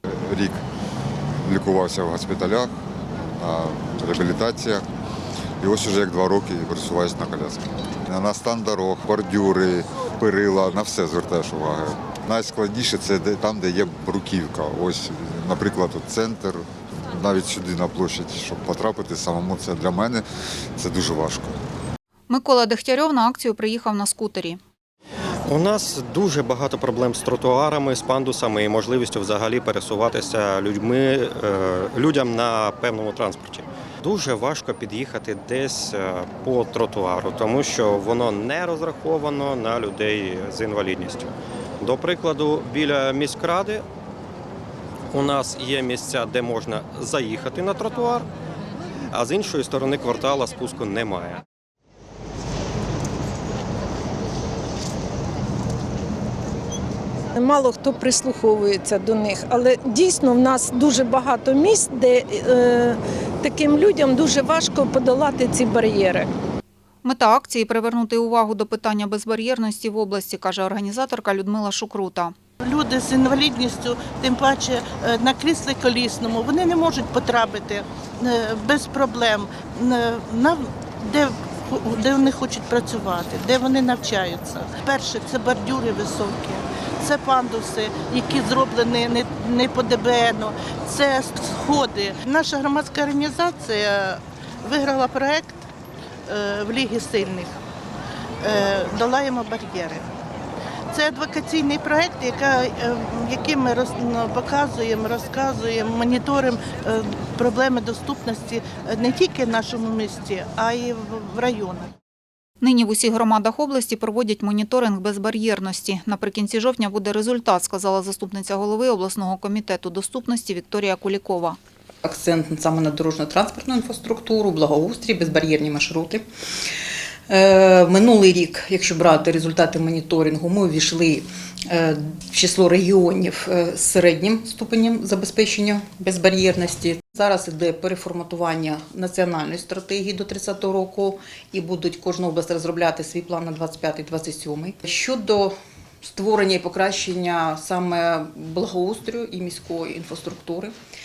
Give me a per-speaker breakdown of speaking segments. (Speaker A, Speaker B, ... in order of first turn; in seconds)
Speaker A: 0.2-0.6, 1.4-2.7, 3.4-4.8, 5.6-20.2, 20.8-21.6
Speaker B: 22.3-24.6, 67.0-72.3, 112.6-121.6
Speaker C: 25.4-43.9, 45.1-48.3, 49.1-51.4
Speaker D: 57.3-66.3
Speaker E: 72.6-95.6, 96.3-97.5, 98.4-100.1, 100.9-111.9
Speaker F: 122.0-126.2, 127.3-150.7